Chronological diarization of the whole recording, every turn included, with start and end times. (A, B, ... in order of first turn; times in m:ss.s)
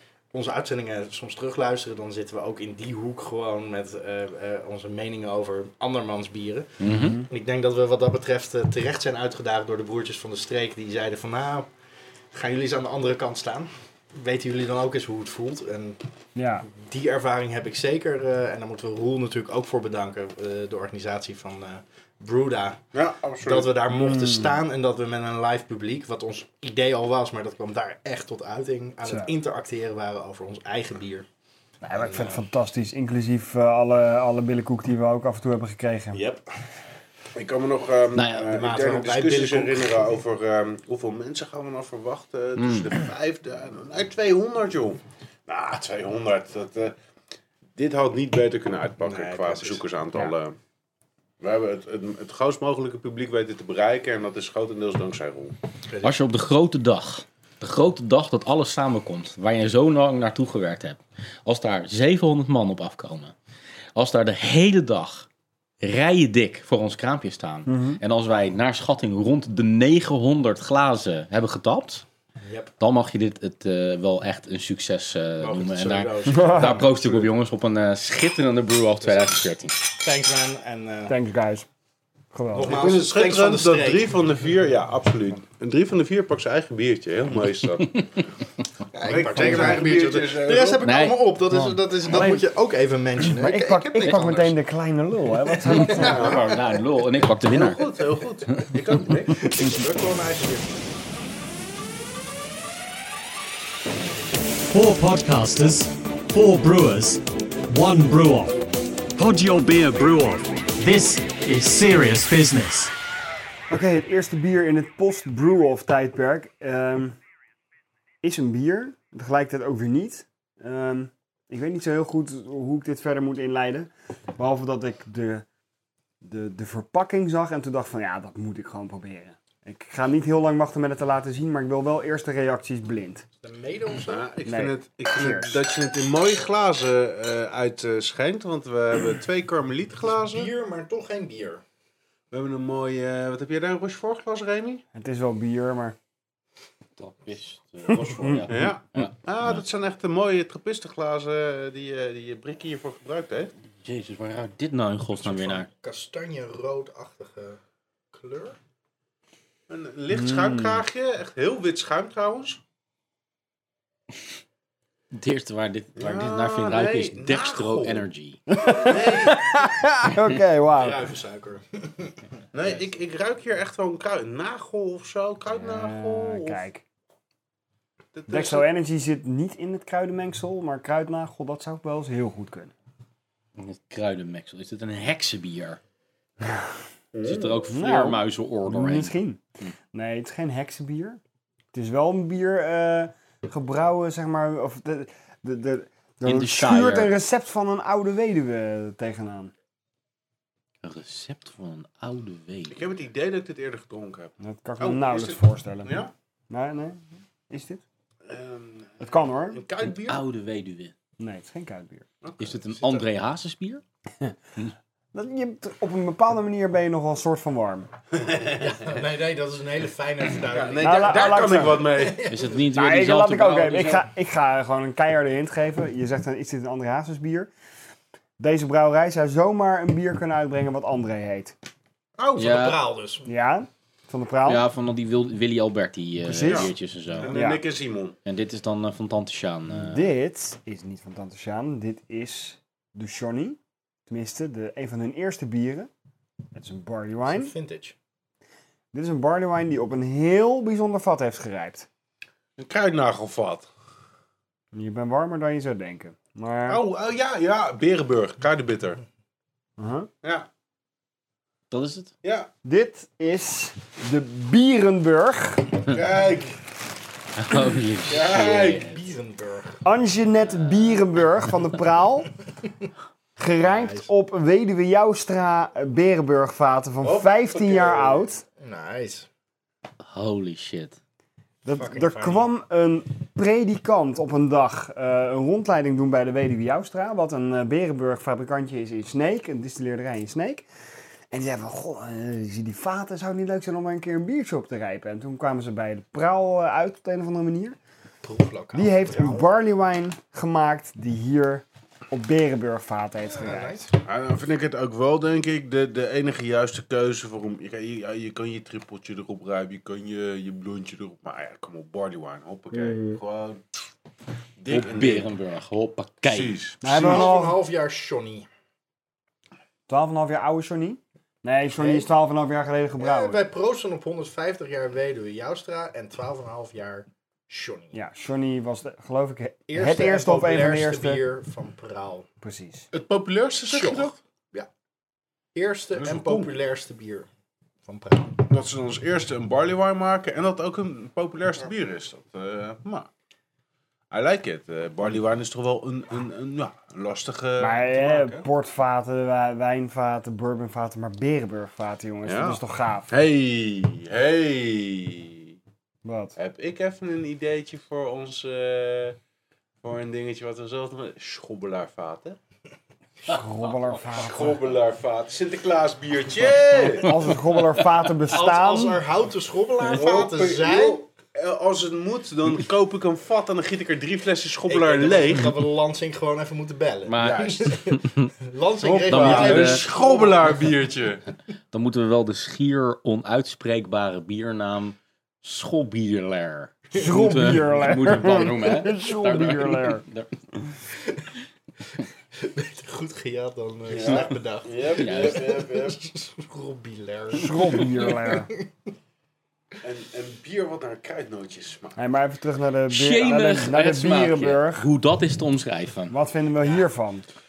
0:00.3-0:11.7 A
0:06.8-0:07.2 B
0:06.9-0:07.3 C
0:12.3-0:16.0 A
0:16.4-0:16.7 C
0:16.7-0:22.8 A
0:22.9-0:23.7 D
0:23.4-0:31.3 A
0:23.9-0:24.6 C
0:29.1-0:29.3 C
0:31.8-0:36.2 C
0:31.9-0:32.4 A
0:36.1-0:36.4 A
0:37.4-0:47.0 D
0:38.2-0:38.6 B
0:38.5-0:40.2 A
0:42.6-0:42.9 B
0:47.8-0:50.6 D
0:49.0-0:49.8 A
0:51.4-0:55.6 D
0:55.9-0:56.2 A
0:56.0-1:03.4 B
1:04.0-1:05.3 B
1:05.8-1:12.0 B
1:07.7-1:08.0 C
1:12.4-1:12.7 A
1:12.8-1:19.8 B
1:15.4-1:17.3 A
1:16.3-1:16.8 C
1:19.0-1:21.2 A
1:21.1-1:21.7 C
1:22.3-1:22.8 C
1:22.5-1:24.1 A
1:22.7-1:28.0 D
1:28.9-1:34.6 A
1:29.0-1:30.9 D
1:29.4-1:29.8 C
1:30.8-1:31.2 B
1:31.5-1:32.4 C
1:33.2-1:36.3 C
1:35.6-1:36.6 A
1:35.7-1:37.9 B
1:36.0-1:36.5 D
1:37.4-1:39.5 D
1:39.2-1:40.7 A
1:44.7-1:48.6 E
1:49.2-1:52.9 E
1:53.7-1:57.2 C
1:58.2-2:05.5 C
2:06.2-2:13.2 C
2:13.4-2:14.3 A
2:14.1-2:20.5 D
2:14.5-2:15.6 C
2:20.2-2:21.6 A
2:22.3-2:24.8 D
2:24.9-2:26.0 C
2:27.0-2:29.6 B
2:27.9-2:28.4 C
2:28.5-2:33.5 D
2:33.8-2:35.7 B
2:35.2-2:37.6 A
2:38.1-2:38.6 A
2:39.7-2:42.6 D
2:40.1-2:40.8 C
2:45.1-2:48.4 B
2:46.0-2:48.0 D
2:48.5-2:51.1 C
2:48.6-2:49.6 D
2:50.7-2:52.2 A
2:52.5-2:56.6 D
2:55.5-2:56.8 C
2:58.1-2:58.7 D
2:58.3-3:02.7 C
3:03.6-3:05.8 B
3:06.4-3:06.7 C
3:07.1-3:07.6 D
3:07.2-3:09.7 B
3:07.7-3:09.4 C
3:09.9-3:11.2 C
3:11.7-3:19.5 C
3:16.2-3:17.1 B
3:20.8-3:22.8 B
3:22.7-3:26.1 D
3:24.4-3:27.8 C
3:28.2-3:30.2 D
3:29.0-3:29.6 C
3:29.8-3:30.9 B
3:31.2-3:32.1 C
3:32.2-3:33.1 D
3:32.4-3:33.8 B
3:35.1-3:37.9 C
3:38.2-3:38.7 D
3:38.6-3:42.6 A
3:40.5-3:42.3 D
3:40.8-3:41.9 C
3:42.2-3:44.1 B
3:42.7-3:47.5 C
3:48.4-3:51.6 C
3:52.2-3:53.3 A
3:52.4-3:52.8 B
3:53.2-3:54.6 C
3:54.5-3:57.4 B
3:56.2-3:56.7 C
3:56.4-3:58.2 D
3:57.3-3:57.6 C
3:58.2-4:00.1 B
3:59.8-4:05.9 C
4:06.5-4:07.5 C
4:07.3-4:08.0 A
4:08.9-4:11.9 C
4:12.6-4:13.7 D
4:14.7-4:16.8 C
4:16.7-4:19.0 D
4:19.8-4:20.1 C
4:21.7-4:22.1 B
4:22.2-4:22.5 D
4:22.6-4:25.8 C
4:25.8-4:26.6 D
4:27.4-4:29.0 B
4:28.1-4:28.9 D
4:28.2-4:29.8 A
4:29.8-4:32.3 C
4:30.4-4:31.1 B
4:33.4-4:38.4 C
4:33.6-4:34.1 A
4:37.0-4:38.2 D
4:38.6-4:39.3 A
4:40.0-4:41.0 B
4:41.6-4:50.7 C
4:41.7-4:42.5 A
4:51.3-4:57.8 C
4:58.2-4:59.5 A
4:58.7-5:03.8 C
5:03.3-5:04.0 A
5:04.0-5:13.6 D
5:12.7-5:13.2 C
5:14.6-5:15.3 D
5:14.7-5:16.5 B
5:16.3-5:17.3 D
5:16.8-5:17.6 C
5:16.8-5:18.5 A
5:19.9-5:23.4 C
5:21.8-5:22.1 A
5:23.0-5:28.0 A
5:27.9-5:31.2 C
5:29.7-5:32.3 A
5:32.4-5:32.9 C
5:32.9-5:34.1 D
5:33.7-5:34.7 A
5:35.6-5:37.3 A
5:36.0-5:36.5 D
5:37.9-5:38.5 A
5:38.5-5:43.1 D
5:44.1-5:48.4 D
5:47.6-5:53.1 C
5:52.3-5:55.6 D
5:56.0-5:56.4 C
5:56.4-5:59.2 D
5:59.8-6:02.4 D
6:03.3-6:04.7 C
6:04.1-6:07.2 D
6:06.7-6:09.0 C
6:08.3-6:11.0 A
6:09.9-6:15.6 D
6:14.7-6:20.8 A
6:17.1-6:18.3 B
6:17.2-6:17.6 D
6:18.8-6:21.3 D
6:19.1-6:19.8 B
6:21.7-6:30.3 B
6:26.9-6:30.0 C
6:32.4-6:38.7 A
6:33.9-6:36.0 D
6:34.9-6:35.4 B
6:37.3-6:38.5 C
6:39.8-6:42.0 D
6:42.0-6:44.9 C
6:42.9-6:46.2 B
6:46.1-6:47.3 C